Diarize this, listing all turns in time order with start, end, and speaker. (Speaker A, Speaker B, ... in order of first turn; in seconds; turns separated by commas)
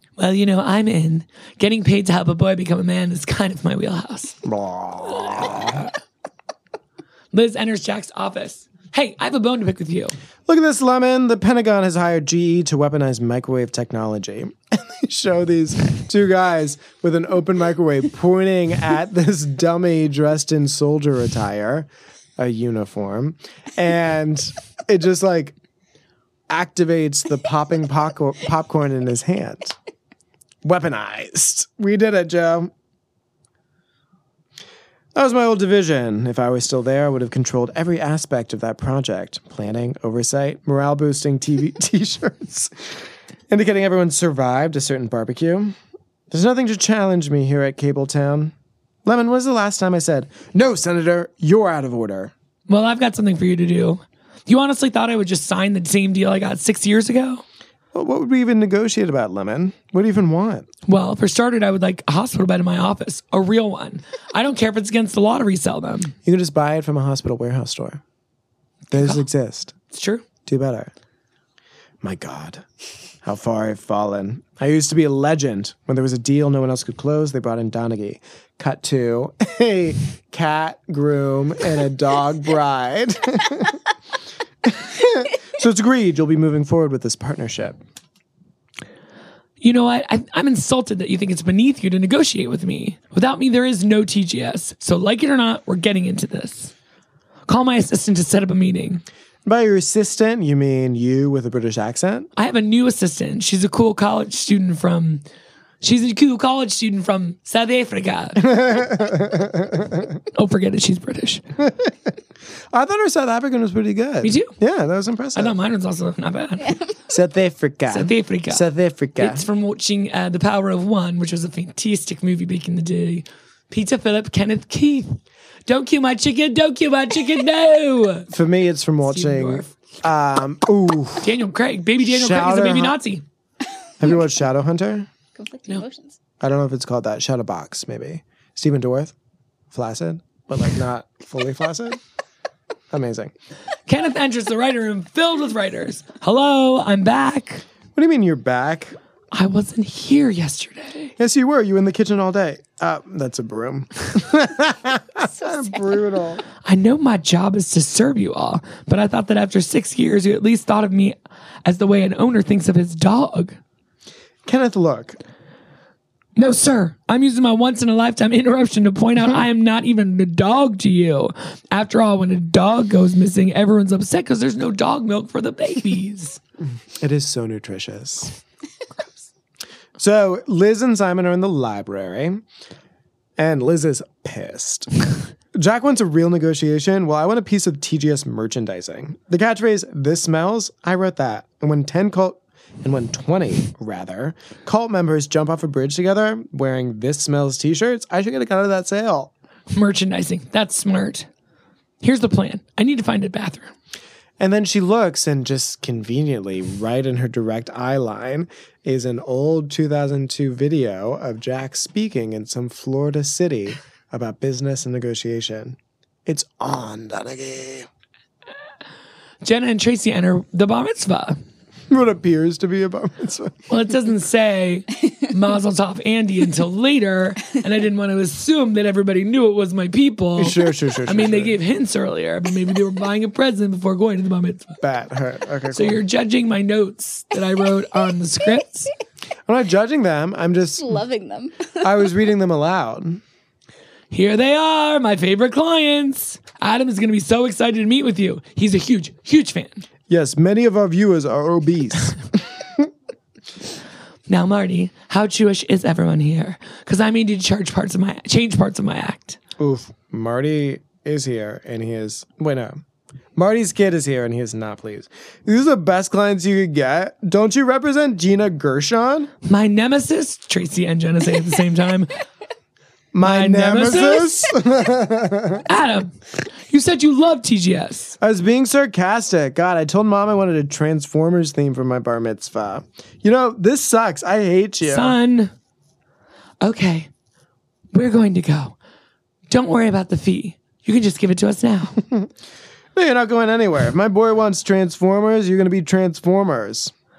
Speaker A: 0.2-4.4, Speaker B: 4.4-5.9, Speaker A: 5.1-5.9, Speaker A: 7.3-10.2, Speaker B: 10.4-25.6, Speaker B: 26.5-29.8, Speaker B: 30.6-32.7, Speaker B: 35.1-42.9, Speaker B: 43.5-45.8, Speaker B: 46.3-52.3, Speaker A: 52.7-57.4, Speaker B: 57.9-60.7, Speaker A: 60.9-66.1, Speaker B: 66.2-68.0, Speaker B: 68.9-69.8, Speaker A: 68.9-69.2, Speaker A: 69.9-70.2, Speaker B: 70.5-70.9, Speaker B: 72.0-72.6, Speaker B: 73.2-83.8, Speaker B: 84.6-87.8, Speaker A: 89.6-96.7, Speaker A: 97.5-99.0, Speaker B: 99.5-102.3, Speaker A: 102.4-105.2, Speaker A: 105.8-108.6, Speaker B: 108.4-110.2, Speaker A: 110.3-111.4, Speaker B: 111.6-112.1, Speaker B: 112.7-115.5, Speaker A: 114.2-114.5, Speaker A: 115.3-116.8, Speaker B: 117.1-119.5, Speaker A: 117.9-118.6, Speaker A: 119.2-128.3, Speaker B: 128.3-131.4, Speaker A: 129.1-129.9, Speaker A: 131.2-133.2, Speaker B: 132.0-133.0, Speaker B: 134.0-135.1, Speaker C: 135.3-136.2, Speaker B: 136.4-139.1, Speaker B: 139.7-142.0, Speaker B: 142.9-143.3, Speaker A: 143.9-147.6, Speaker B: 147.9-149.0, Speaker A: 149.3-151.1, Speaker B: 151.2-156.4, Speaker C: 155.2-156.0, Speaker A: 156.6-163.6, Speaker B: 164.5-165.2, Speaker A: 166.4-176.4, Speaker B: 176.9-178.4, Speaker B: 180.0-182.4, Speaker B: 183.4-199.3, Speaker A: 199.7-201.3, Speaker A: 202.0-203.7, Speaker B: 204.4-217.9, Speaker A: 219.4-221.4, Speaker B: 221.9-223.7, Speaker A: 223.7-234.8, Speaker B: 230.4-231.6, Speaker B: 234.8-236.0, Speaker A: 235.7-238.9, Speaker B: 239.5-241.0, Speaker C: 240.8-241.7, Speaker B: 241.8-243.2, Speaker A: 244.1-249.8, Speaker B: 250.1-252.9, Speaker A: 254.3-259.4, Speaker B: 259.6-262.8, Speaker B: 263.4-269.3, Speaker A: 269.4-272.2, Speaker B: 273.1-275.6, Speaker A: 273.2-274.5, Speaker A: 275.6-276.2, Speaker A: 276.7-278.1, Speaker B: 278.2-285.2, Speaker A: 284.9-285.5, Speaker A: 286.6-287.1, Speaker A: 287.9-288.8, Speaker A: 289.5-292.0, Speaker B: 292.9-296.9